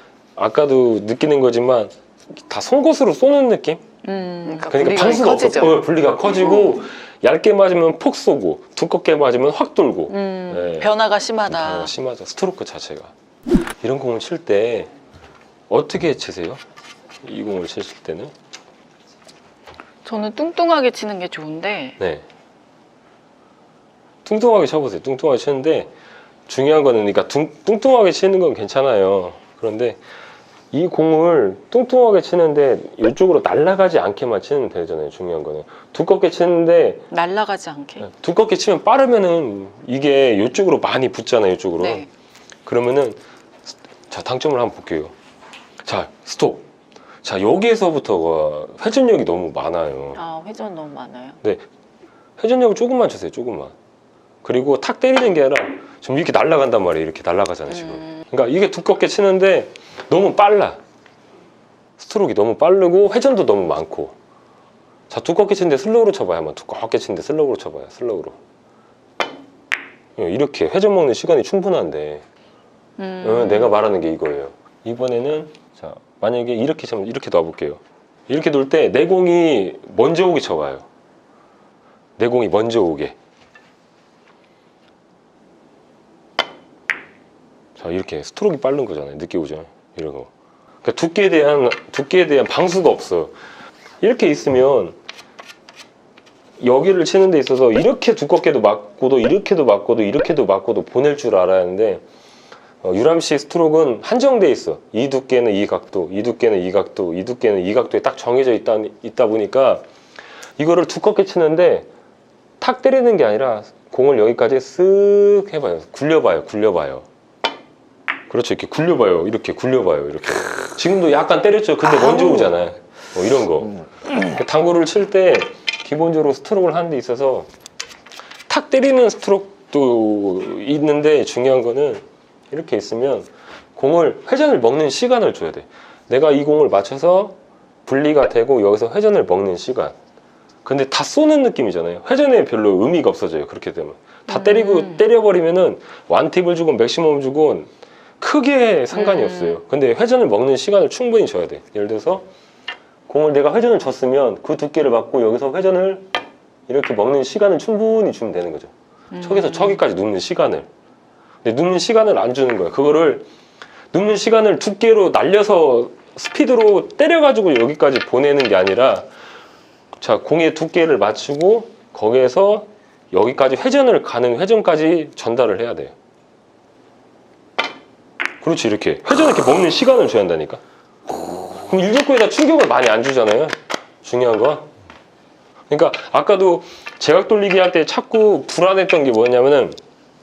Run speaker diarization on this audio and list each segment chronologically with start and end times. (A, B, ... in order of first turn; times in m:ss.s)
0:00.4-0:03.8 A
0:04.0-0:05.8 B
0:04.6-0:10.9 A
0:06.4-0:06.7 B
0:10.1-0:11.9 B
0:11.5-0:13.1 A
0:13.8-0:14.9 A
0:15.7-0:16.6 A
0:17.2-0:18.3 A
0:20.0-0:22.0 B
0:22.0-0:22.2 A
0:24.2-0:25.9 A
0:26.5-0:30.0 A
0:30.7-0:37.1 A
0:37.1-0:38.1 B
0:38.0-0:42.1 A
0:41.8-0:42.1 B
0:42.7-0:45.1 A
0:45.8-0:46.7 A
0:47.2-0:50.2 A
0:50.2-0:51.4 B
0:52.4-0:53.7 A
0:54.4-1:00.8 A
0:57.8-0:58.2 B
1:02.0-1:04.2 A
1:05.1-1:08.4 A
1:10.2-1:12.2 A
1:13.0-1:13.8 B
1:13.2-1:20.8 A
1:22.2-1:23.2 A
1:27.8-1:30.3 A
1:30.8-1:33.3 A
1:34.0-1:35.0 A
1:36.6-1:42.0 A
1:42.8-1:49.8 A
1:50.6-1:51.9 A
1:52.6-1:57.1 A
1:58.3-2:07.5 A
2:08.5-2:20.0 A
2:20.6-2:32.3 A
2:24.3-2:25.0 B
2:28.9-2:29.6 B
2:33.1-2:36.1 A
2:36.7-2:40.7 A
2:39.1-2:39.8 B
2:41.4-2:43.3 A
2:43.9-2:49.1 A
2:50.0-2:55.9 A
2:58.4-3:00.6 A
3:01.4-3:04.7 A
3:05.7-3:09.8 A